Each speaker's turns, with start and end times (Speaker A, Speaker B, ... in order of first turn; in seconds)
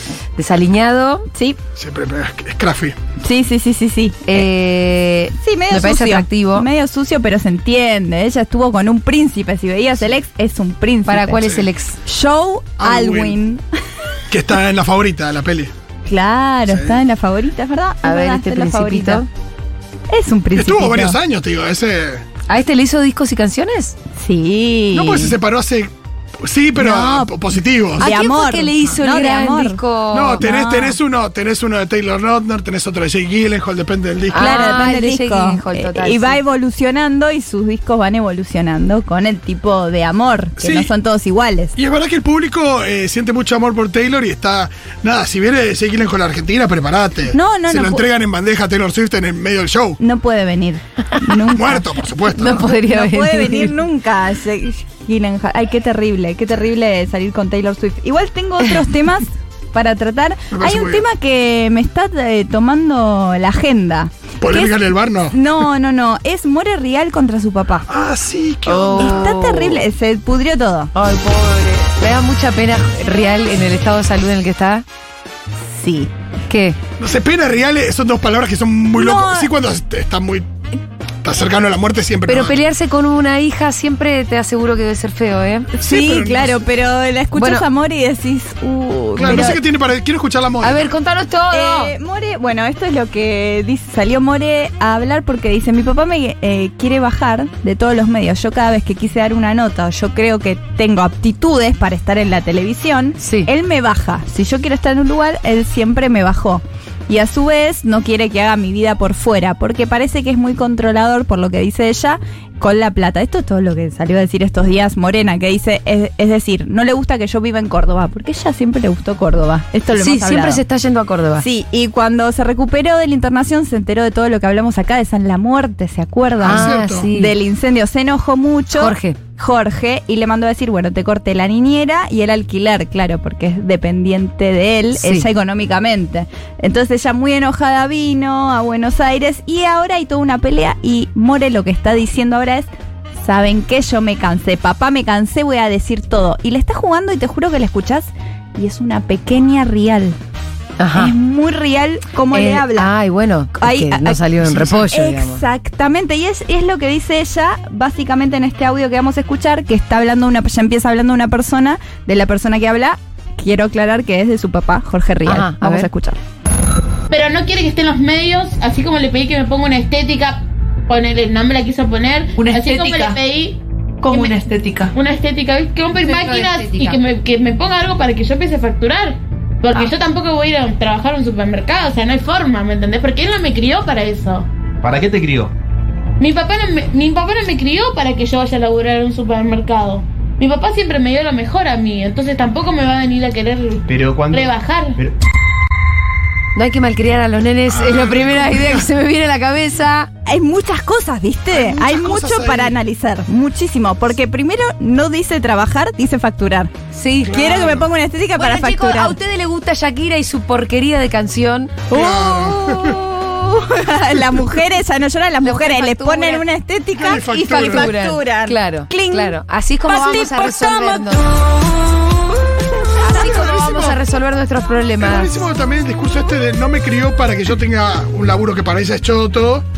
Speaker A: 0.4-1.3, 4.3-6.7, 11.1-12.0, 18.0-19.3, 22.5-24.0, 28.0-30.4, 34.3-36.4, 52.3-53.8, 68.7-69.8, 71.0-74.8, 76.5-76.8, 82.3-85.7, 87.3-87.7, 89.3-89.5, 90.6-91.9, 103.2-103.5, 119.9-121.5, 126.4-127.3, 128.8-129.2, 134.9-135.3, 150.8-151.1, 152.3-155.4, 165.3-165.9, 176.3-176.9, 196.6-200.1, 206.9-207.6, 208.4-211.8, 215.4-216.4, 217.2-221.4, 223.0-225.3
Speaker B: 1.8-3.0, 11.4-11.7, 12.8-13.4, 14.3-15.7, 16.7-17.0, 20.5-22.2, 24.9-28.1, 30.1-34.5, 40.6-40.9, 41.8-50.0, 51.5-52.6, 60.5-61.0, 64.4-65.4, 67.9-69.3, 77.0-80.5, 81.2-82.6, 85.8-86.6, 89.2-90.9, 126.5-127.1, 154.5-154.7, 197.7-198.8, 201.5-202.8, 207.3-207.9, 211.9-213.0, 214.2-214.4, 217.0-217.9, 223.2-224.0, 225.0-229.7
Speaker C: 3.2-4.5, 5.4-11.4, 12.1-13.6, 16.1-19.2, 20.1-21.2, 24.2-25.4, 26.8-29.8, 30.4-31.0, 34.4-41.7, 47.3-48.1, 50.0-51.9, 52.5-67.9, 69.0-70.9, 75.7-76.1, 79.0-79.5, 85.8-89.6, 91.5-120.6, 121.4-142.7, 143.2-150.2, 150.9-152.9, 153.6-166.2, 200.3-206.7, 207.3-209.2, 211.9-221.2
Speaker D: 167.1-174.4, 174.9-184.5, 186.2-195.0
Speaker E: 172.4-173.2, 174.0-174.9, 176.1-177.0
Speaker F: 184.8-185.5, 193.9-195.1